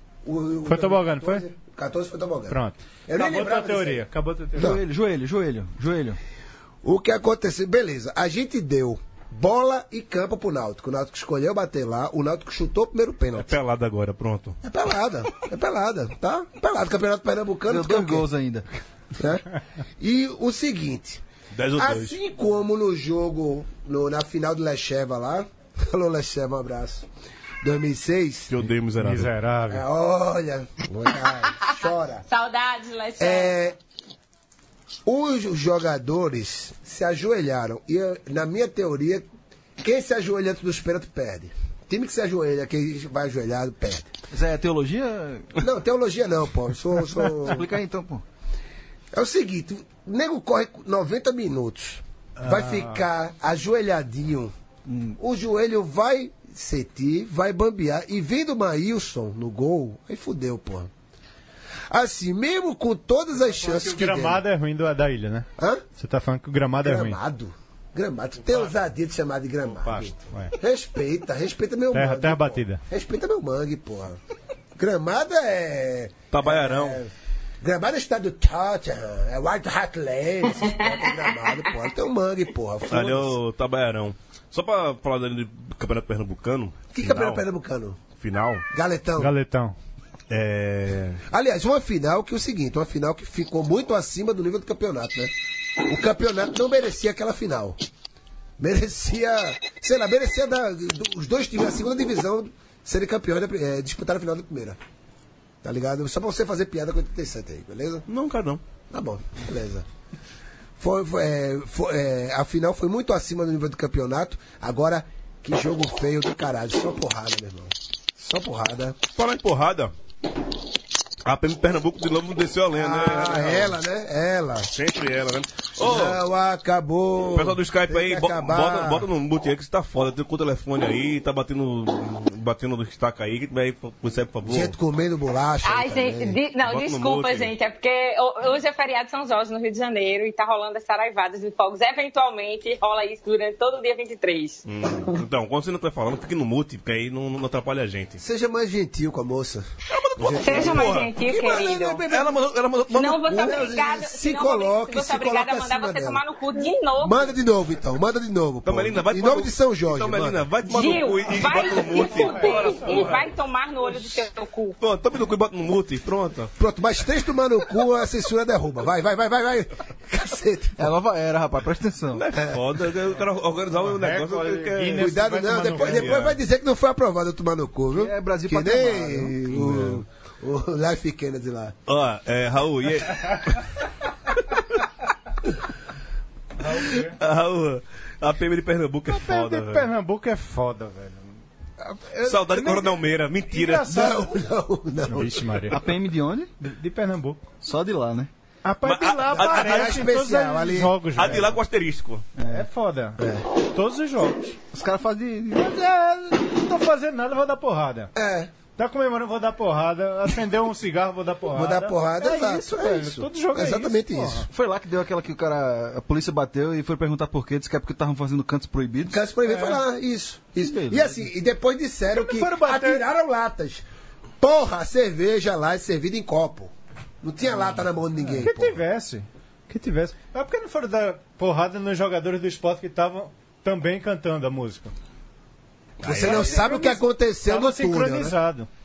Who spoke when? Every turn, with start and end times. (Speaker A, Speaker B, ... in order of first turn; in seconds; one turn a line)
Speaker A: 0.2-4.8
Speaker B: 0.7-1.4
Speaker B: 2.5-4.7
Speaker C: 4.6-6.2
Speaker A: 6.8-13.5
Speaker D: 13.3-14.6
Speaker A: 14.6-18.3
Speaker C: 17.7-18.6
Speaker A: 19.1-19.4
Speaker A: 20.0-21.2
Speaker D: 21.5-22.1
Speaker A: 21.8-27.1
Speaker A: 27.6-28.5
Speaker D: 28.5-29.3
Speaker B: 29.0-29.8
Speaker A: 29.7-32.2
Speaker E: 32.3-33.5
Speaker A: 33.2-33.8
Speaker A: 35.0-39.2
Speaker A: 39.8-44.1
Speaker C: 44.3-45.6
Speaker A: 45.6-47.7
Speaker C: 47.2-48.2
Speaker A: 49.1-54.5
Speaker B: 52.5-52.9
Speaker C: 54.9-55.2
Speaker A: 55.2-60.9
Speaker A: 61.9-64.4
Speaker B: 63.4-67.2
Speaker A: 65.6-65.8
Speaker A: 66.8-74.2
Speaker B: 69.8-70.5
Speaker B: 71.9-72.8
Speaker A: 74.8-83.3
Speaker D: 76.3-77.0
Speaker D: 82.9-87.4
Speaker A: 86.9-88.0
Speaker D: 88.2-88.6
Speaker A: 88.7-89.3
Speaker B: 89.2-89.7
Speaker D: 90.3-91.2
Speaker A: 91.3-95.3
Speaker A: 95.8-97.8
Speaker A: 98.6-104.8
Speaker A: 105.6-108.0
Speaker D: 108.1-108.6
Speaker A: 108.9-109.8
Speaker A: 110.8-119.0
Speaker D: 119.2-119.9
Speaker D: 121.2-123.8
Speaker A: 122.7-124.7
Speaker D: 124.7-126.2
Speaker A: 125.8-129.1
Speaker D: 127.3-134.7
Speaker A: 134.4-136.4
Speaker E: 135.6-144.6
Speaker D: 136.7-137.5
Speaker D: 144.7-148.2
Speaker A: 148.2-149.7
Speaker D: 149.9-151.1
Speaker A: 150.2-152.4
Speaker E: 150.4-152.0
Speaker D: 152.1-153.6
Speaker E: 152.9-157.3
Speaker A: 153.2-156.2
Speaker A: 157.0-160.5
Speaker D: 158.6-163.3
Speaker E: 160.6-164.8
Speaker B: 162.2-163.1
Speaker D: 164.8-166.5
Speaker A: 166.6-170.9
Speaker C: 170.8-172.2
Speaker D: 172.1-175.1
Speaker B: 173.9-176.2
Speaker A: 174.9-181.8
Speaker D: 175.8-176.3
Speaker C: 177.9-179.5
Speaker D: 179.6-179.9
Speaker D: 181.9-183.6
Speaker B: 186.6-187.1
Speaker D: 186.7-189.9
Speaker B: 189.1-191.3
Speaker B: 191.8-194.3
Speaker D: 192.2-194.2
Speaker A: 193.9-195.7
Speaker B: 195.1-195.8
Speaker C: 195.7-196.5
Speaker B: 196.6-197.4
Speaker C: 197.6-198.3
Speaker B: 198.6-201.5
Speaker D: 198.8-200.0
Speaker A: 199.3-201.0
Speaker D: 201.2-202.2
Speaker C: 202.4-202.7
Speaker B: 202.5-203.2
Speaker B: 203.7-204.6
Speaker C: 204.7-205.7
Speaker B: 205.5-208.1
Speaker A: 208.1-208.5
Speaker B: 208.8-214.5
Speaker A: 211.5-214.5
Speaker C: 214.5-219.2
Speaker A: 219.1-223.8
Speaker B: 219.5-219.8
Speaker C: 220.6-221.3
Speaker B: 222.1-223.0
Speaker A: 224.4-228.8
Speaker B: 228.3-234.9
Speaker A: 236.0-238.3
Speaker B: 236.0-238.7
Speaker D: 236.1-236.5